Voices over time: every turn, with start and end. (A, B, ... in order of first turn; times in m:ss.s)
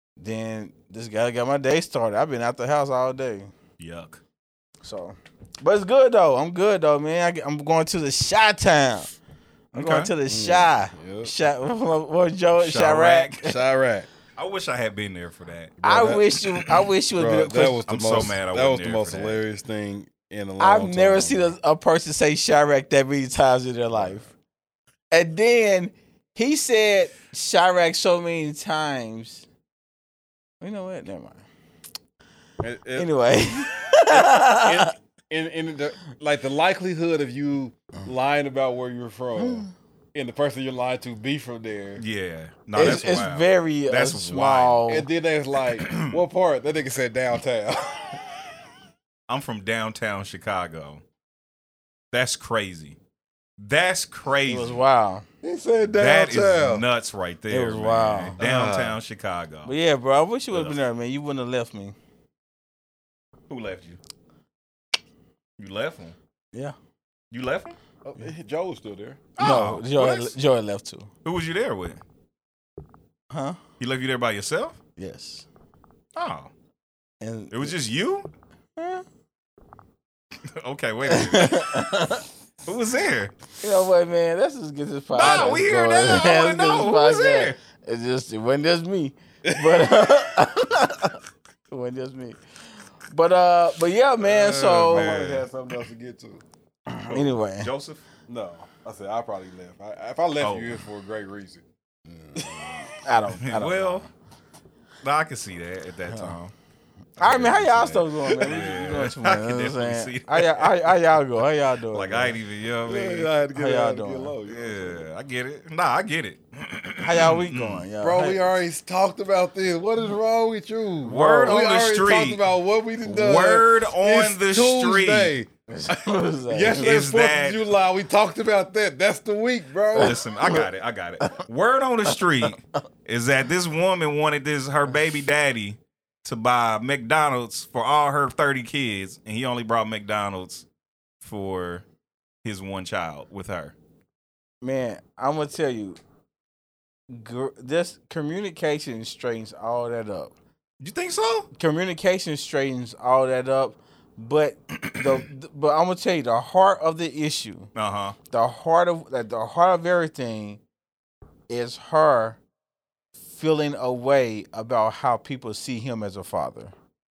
0:00.2-0:03.5 A
0:03.8-0:04.2 B
0:04.8-0:09.1 A
0:09.7-0:13.5 A
0:09.7-0:10.1 B
0:10.2-0:11.3 C
0:12.6-0:13.4 B
0:13.4-0:14.1 C
0:14.4-0:15.8 B
0:15.8-0:16.4 C
0:15.8-0:17.8 A
0:17.2-0:21.6 C
0:17.9-0:19.4 B
0:20.6-0:24.2 A
0:25.1-0:29.4 A
0:30.6-0:31.4 A
0:32.6-0:33.1 C
0:33.0-0:34.9 A
0:34.1-0:42.0 C
0:39.4-0:39.7 A
0:42.0-0:44.8 B
0:42.7-0:45.1 A
0:44.9-0:48.2 C
0:45.7-0:46.2 B
0:49.3-0:51.0 B
0:52.1-0:53.0 B
0:53.6-0:54.8 B
0:54.5-0:55.2 A
0:55.4-0:56.8 C
0:55.9-0:59.7 B
0:57.5-0:58.4 A
0:58.4-0:59.0 C
0:59.6-1:02.0 A
1:00.5-1:00.8 B
1:03.5-1:04.0 B
1:05.6-1:06.2 B
1:07.3-1:07.8 B
1:08.0-1:09.2 C
1:09.4-1:10.3 B
1:09.4-1:11.1 A
1:11.2-1:12.0 B
1:13.3-1:13.6 A
1:13.8-1:14.8 B
1:15.0-1:15.4 A
1:16.2-1:16.5 B
1:17.2-1:17.7 A
1:17.5-1:18.3 B
1:18.8-1:19.0 A
1:20.5-1:21.9 B
1:21.1-1:22.2 A
1:22.6-1:23.3 B
1:23.6-1:31.2 A
1:25.1-1:27.6 B
1:25.2-1:25.5 C
1:29.4-1:29.9 C
1:31.7-1:32.4 A
1:33.1-1:35.1 A
1:34.2-1:35.4 B
1:34.4-1:36.4 C
1:36.9-1:37.7 A
1:37.1-1:38.0 B
1:38.3-1:41.6 C
1:40.4-1:40.8 B
1:42.3-1:42.8 C
1:43.0-1:44.0 A
1:43.3-1:44.1 B
1:45.0-1:46.5 B
1:46.1-1:46.4 A
1:47.2-1:50.9 B
1:47.2-1:52.3 A
1:51.9-1:53.3 B
1:52.8-1:55.0 C
1:53.5-1:54.3 A
1:54.5-1:57.8 B
1:57.0-1:58.4 A
1:58.0-2:06.0 C
2:01.0-2:02.4 B
2:01.1-2:01.6 A
2:03.0-2:05.3 B
2:05.7-2:07.0 A
2:06.5-2:10.2 C
2:06.7-2:07.6 B
2:10.0-2:20.6 B
2:10.0-2:10.6 A
2:21.2-2:21.8 B
2:22.4-2:23.7 B
2:24.6-2:26.0 A
2:27.1-2:30.3 A
2:30.8-2:31.5 B
2:31.5-2:37.7 A
2:37.7-2:38.2 B
2:38.3-2:40.6 A
2:41.5-2:42.4 A
2:43.3-2:46.7 A